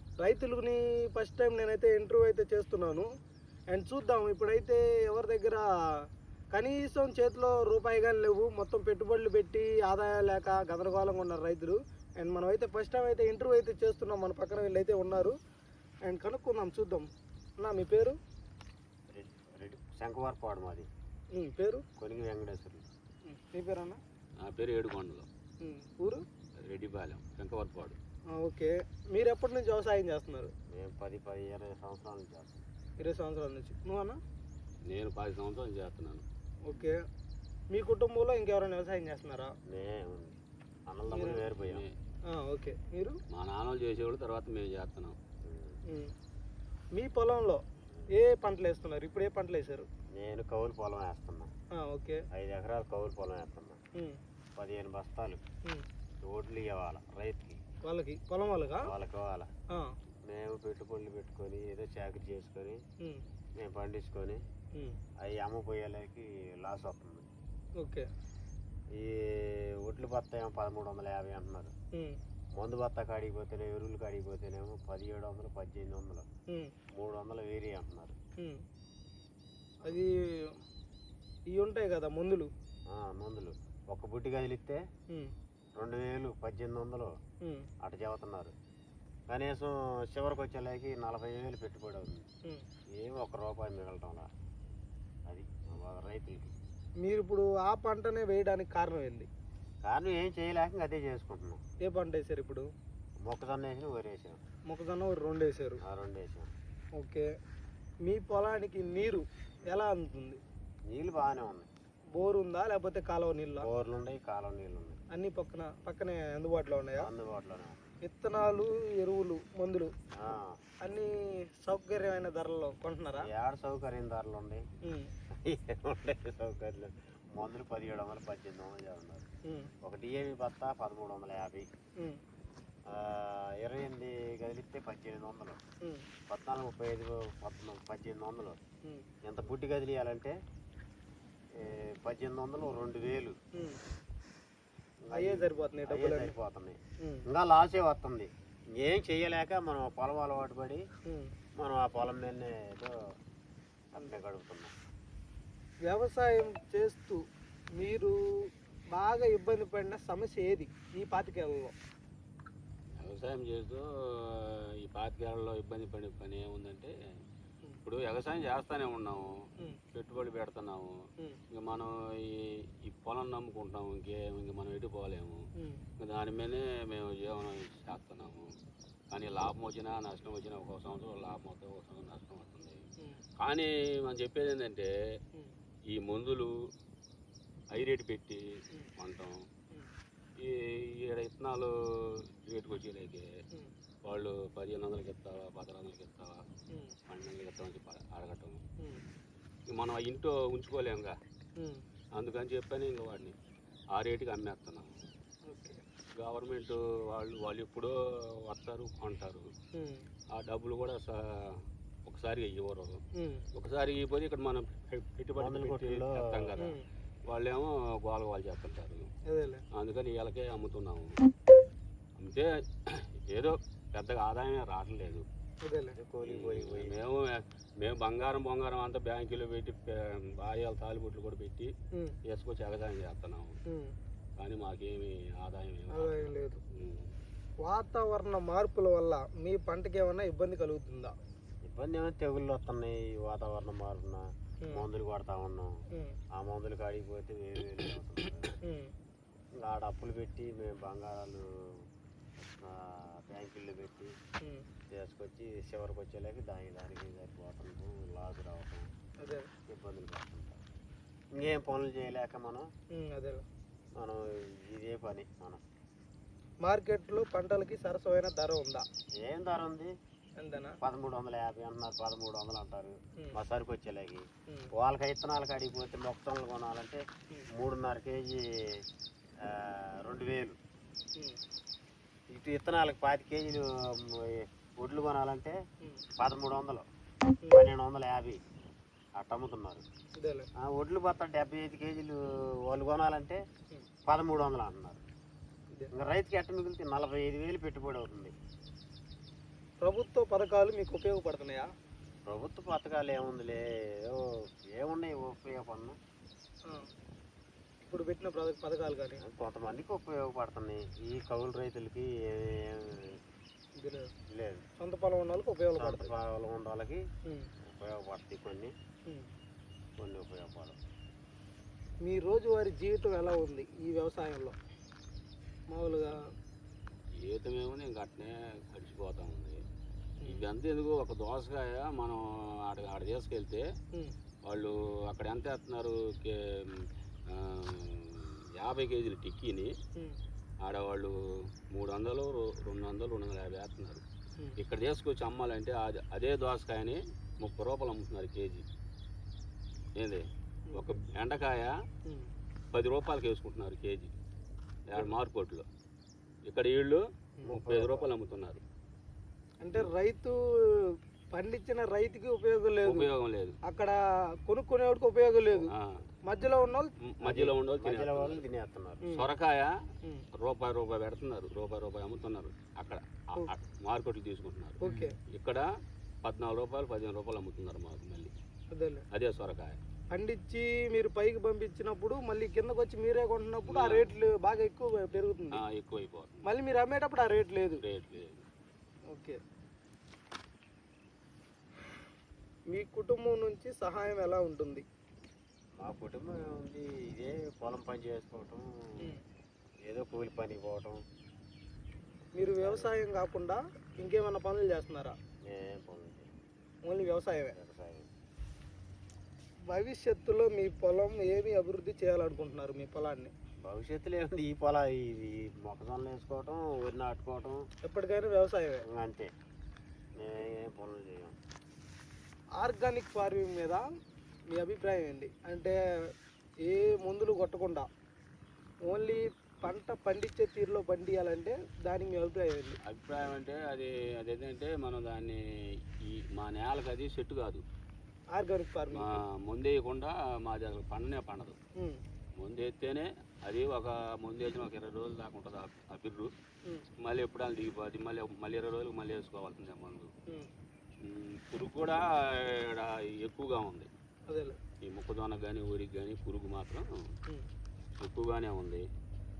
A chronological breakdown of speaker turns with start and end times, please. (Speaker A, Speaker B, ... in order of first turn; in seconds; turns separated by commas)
Speaker A: 0.2-3.1, Speaker A: 3.7-5.6, Speaker A: 6.5-15.3, Speaker A: 16.0-17.1, Speaker A: 17.6-18.2, Speaker B: 19.1-20.9, Speaker A: 21.3-21.8, Speaker B: 22.0-22.8, Speaker A: 23.3-24.0, Speaker C: 24.4-25.3, Speaker A: 25.6-26.2, Speaker C: 26.6-28.0, Speaker A: 28.4-30.5, Speaker B: 30.7-32.6, Speaker A: 33.0-34.2, Speaker C: 34.9-36.2, Speaker A: 36.6-37.0, Speaker A: 37.7-39.5, Speaker B: 39.7-41.9, Speaker A: 41.1-41.5, Speaker C: 41.6-41.9, Speaker A: 42.3-43.2, Speaker C: 43.3-45.1, Speaker B: 45.4-45.8, Speaker A: 45.9-46.1, Speaker A: 46.9-47.6, Speaker A: 48.1-49.9, Speaker B: 50.1-51.5, Speaker A: 51.8-52.2, Speaker B: 52.3-53.8, Speaker B: 54.6-55.4, Speaker B: 56.2-57.6, Speaker A: 57.8-58.9, Speaker B: 58.8-59.5, Speaker B: 60.3-62.8, Speaker B: 63.6-64.4, Speaker B: 65.2-67.3, Speaker A: 67.8-68.1, Speaker B: 68.9-71.7, Speaker B: 72.6-76.2, Speaker B: 76.9-78.2, Speaker A: 79.8-80.6, Speaker A: 81.5-82.5, Speaker B: 82.9-84.8, Speaker B: 85.8-87.1, Speaker A: 87.4-87.7, Speaker B: 87.8-88.5, Speaker B: 89.3-92.2, Speaker B: 93.0-94.3, Speaker B: 95.3-96.5, Speaker A: 97.0-99.3, Speaker B: 99.8-101.6, Speaker A: 101.8-102.7, Speaker B: 103.2-104.4, Speaker A: 104.7-105.8, Speaker B: 105.8-106.5, Speaker A: 107.0-107.3, Speaker A: 108.0-110.4, Speaker B: 110.9-111.7, Speaker A: 112.1-113.7, Speaker B: 113.6-115.0, Speaker A: 115.1-117.1, Speaker B: 117.0-117.8, Speaker A: 118.0-119.9, Speaker B: 120.1-120.6, Speaker A: 120.8-123.3, Speaker B: 123.2-124.6, Speaker A: 124.8-125.1, Speaker B: 125.4-129.3, Speaker A: 129.4-129.7, Speaker B: 129.8-131.7, Speaker B: 132.9-135.6, Speaker B: 136.3-138.6, Speaker B: 139.2-140.3, Speaker B: 141.6-143.3, Speaker A: 143.5-143.8, Speaker B: 145.1-146.8, Speaker A: 145.1-146.3, Speaker B: 147.3-150.8, Speaker A: 151.1-151.3, Speaker B: 151.6-152.9, Speaker B: 153.9-154.7, Speaker A: 155.9-157.2, Speaker A: 157.8-158.2, Speaker A: 158.9-161.7, Speaker C: 163.0-166.9, Speaker C: 167.8-169.3, Speaker C: 169.9-170.9, Speaker C: 171.5-175.4, Speaker A: 175.6-175.8, Speaker C: 176.0-178.5, Speaker C: 179.1-182.8, Speaker C: 183.4-184.9, Speaker C: 185.9-186.5, Speaker C: 187.7-188.4, Speaker C: 189.0-189.4, Speaker C: 190.4-191.7, Speaker C: 192.5-193.2, Speaker C: 194.0-196.4, Speaker A: 196.7-196.9, Speaker C: 197.1-198.6, Speaker C: 199.7-201.1, Speaker C: 202.2-203.3, Speaker C: 203.9-204.9, Speaker A: 205.5-205.8, Speaker C: 206.2-207.9, Speaker C: 208.5-209.5, Speaker A: 209.7-210.0, Speaker C: 210.3-211.5, Speaker C: 212.0-213.0, Speaker A: 213.2-213.4, Speaker C: 213.5-216.7, Speaker B: 215.4-216.7, Speaker C: 217.3-219.1, Speaker A: 219.3-219.6, Speaker C: 219.7-221.1, Speaker C: 222.2-225.2, Speaker A: 225.6-226.0, Speaker B: 225.9-226.9, Speaker C: 226.2-231.7, Speaker C: 232.3-233.6, Speaker A: 233.7-233.9, Speaker C: 234.4-237.1, Speaker A: 235.9-236.6, Speaker A: 237.6-241.1, Speaker B: 241.6-245.7, Speaker A: 245.9-246.2, Speaker B: 246.3-248.6, Speaker A: 248.6-248.9, Speaker B: 249.6-251.4, Speaker B: 252.5-254.1, Speaker A: 254.4-254.7, Speaker B: 254.9-258.9, Speaker A: 259.2-259.5, Speaker B: 259.7-260.6, Speaker B: 261.3-262.7, Speaker A: 262.9-263.4, Speaker B: 264.0-265.6, Speaker A: 266.6-268.8, Speaker B: 269.2-269.9, Speaker A: 270.4-270.8, Speaker B: 270.8-274.2, Speaker B: 274.8-277.0, Speaker B: 277.5-278.8, Speaker B: 279.4-280.6, Speaker B: 282.3-285.6, Speaker B: 286.2-286.8, Speaker B: 287.5-288.4, Speaker B: 289.2-289.8, Speaker A: 290.2-290.5, Speaker B: 290.6-293.4, Speaker B: 294.1-295.0, Speaker B: 295.9-298.3, Speaker A: 299.8-301.6, Speaker B: 302.3-305.9, Speaker A: 307.8-309.2, Speaker B: 309.2-313.2, Speaker A: 313.8-314.1, Speaker B: 314.3-314.6, Speaker A: 314.8-316.1, Speaker B: 315.8-317.0, Speaker B: 317.7-318.7, Speaker B: 320.0-320.8, Speaker A: 322.0-324.5, Speaker A: 325.7-326.2, Speaker C: 327.2-329.6, Speaker C: 330.2-333.6, Speaker C: 334.5-339.7, Speaker C: 340.6-341.1, Speaker C: 341.7-344.0, Speaker C: 344.6-348.6, Speaker C: 349.9-351.7, Speaker A: 350.7-351.0, Speaker C: 352.7-354.1, Speaker C: 354.9-355.6, Speaker C: 356.5-358.6, Speaker B: 357.5-358.1, Speaker A: 359.6-363.1, Speaker C: 362.8-363.6, Speaker A: 363.6-365.7, Speaker C: 365.6-366.0, Speaker A: 366.2-366.9, Speaker C: 367.1-368.4, Speaker B: 367.2-369.1, Speaker A: 369.1-369.3, Speaker C: 369.1-369.7, Speaker C: 370.4-374.8, Speaker A: 374.8-375.1, Speaker C: 375.3-375.6, Speaker C: 376.2-378.3, Speaker A: 378.7-379.0, Speaker C: 379.1-379.8, Speaker A: 380.1-385.6, Speaker C: 383.7-384.1, Speaker C: 385.6-386.4, Speaker A: 386.4-387.8, Speaker C: 387.8-388.4, Speaker A: 389.1-389.4, Speaker A: 392.7-394.8, Speaker B: 395.8-398.7, Speaker B: 399.9-401.0, Speaker A: 402.3-405.1, Speaker B: 402.6-402.9, Speaker B: 405.5-406.3, Speaker A: 406.9-407.5, Speaker B: 407.5-408.1, Speaker A: 409.7-413.3, Speaker B: 413.6-417.7, Speaker A: 417.8-418.8, Speaker B: 418.9-419.3, Speaker B: 420.2-421.3, Speaker A: 422.6-423.8, Speaker A: 424.5-425.8, Speaker A: 426.6-427.9, Speaker A: 428.8-432.8, Speaker C: 432.8-435.4, Speaker C: 436.1-437.6, Speaker A: 438.3-439.2, Speaker C: 438.9-441.6, Speaker C: 442.4-446.3, Speaker C: 447.0-450.1, Speaker C: 451.0-453.9, Speaker A: 454.3-454.6, Speaker C: 454.8-456.9, Speaker C: 458.0-458.8